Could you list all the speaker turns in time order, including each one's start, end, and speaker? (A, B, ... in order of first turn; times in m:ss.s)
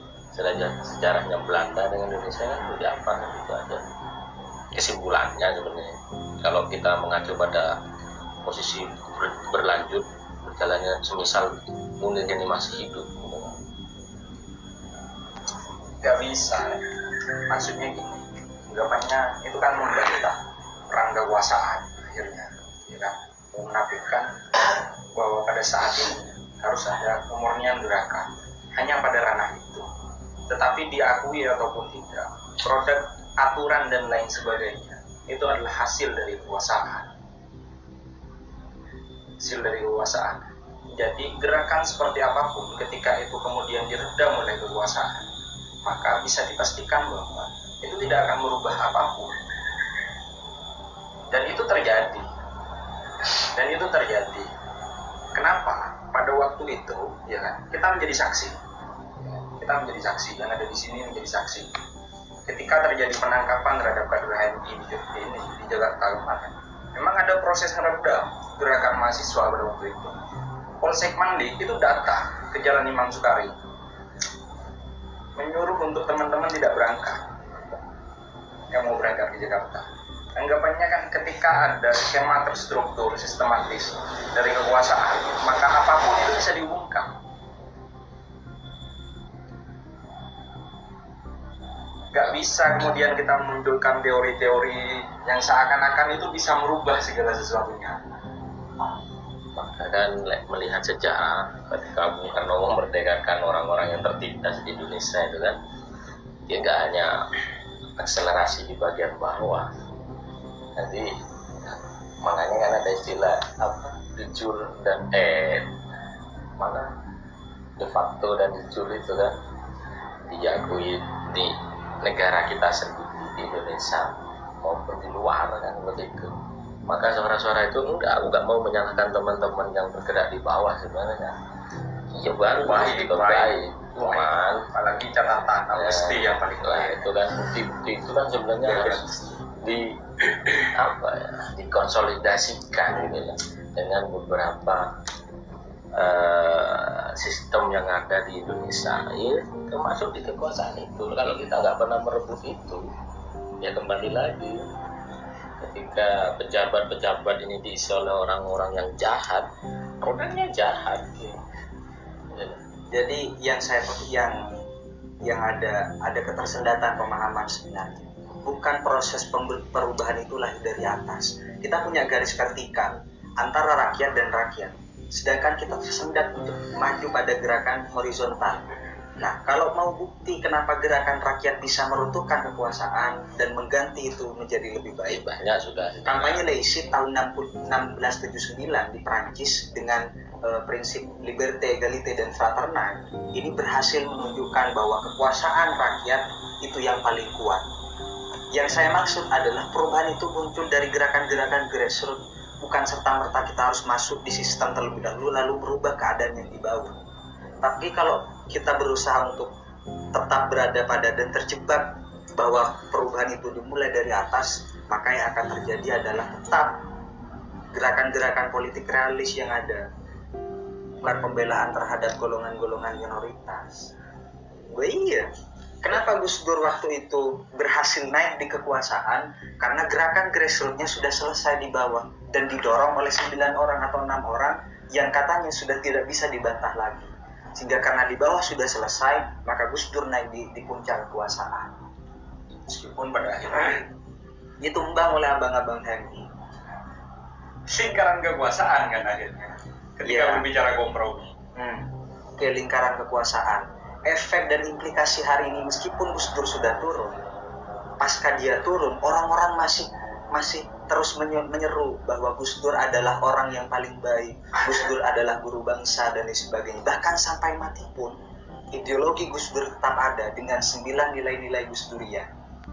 0:00.3-0:03.8 A
0:04.7-0:07.7 A
0:08.4-0:13.6 A
0:16.0-0:16.8 B
0:17.5-0:20.4 B
0:20.9-0:29.9 B
0:30.5-0:37.1 B
0:39.4-0:45.2 B
0:45.8-0:49.3 B
0:51.3-0:52.3 B
0:53.2-0:54.5 B
0:55.3-0:58.6 B
0:59.2-1:01.7 B
1:02.5-1:10.1 B
1:10.8-1:13.6 B
1:15.4-1:17.2 B
1:18.7-1:27.1 B
1:32.1-1:38.0 B
1:39.5-1:45.6 A
1:46.5-1:47.1 A
1:48.0-1:49.7 A
1:50.8-1:51.1 A
1:51.6-1:55.7 A
1:56.6-1:57.0 A
1:57.8-1:59.3 A
2:00.3-2:04.1 A
2:04.6-2:06.3 A
2:06.9-2:11.4 A
2:12.1-2:14.7 A
2:12.5-2:17.1 B
2:15.7-2:24.9 A
2:18.6-2:19.1 B
2:25.9-2:32.8 A
2:33.6-2:34.6 A
2:35.6-2:39.5 A
2:40.0-2:41.4 A
2:42.3-2:42.6 A
2:42.9-2:44.4 C
2:45.2-3:05.2 C
3:05.1-3:06.4 A
3:06.1-3:17.6 C
3:18.5-3:26.9 C
3:27.6-3:29.5 C
3:30.1-3:36.8 C
3:37.7-3:39.8 C
3:41.0-3:43.9 C
3:44.7-3:45.3 C
3:45.8-4:01.7 C
4:02.7-4:03.9 B
4:04.6-4:06.3 C
4:07.7-4:11.3 B
4:10.0-4:10.4 C
4:11.6-4:17.2 C
4:18.0-4:28.1 C
4:28.7-4:32.3 C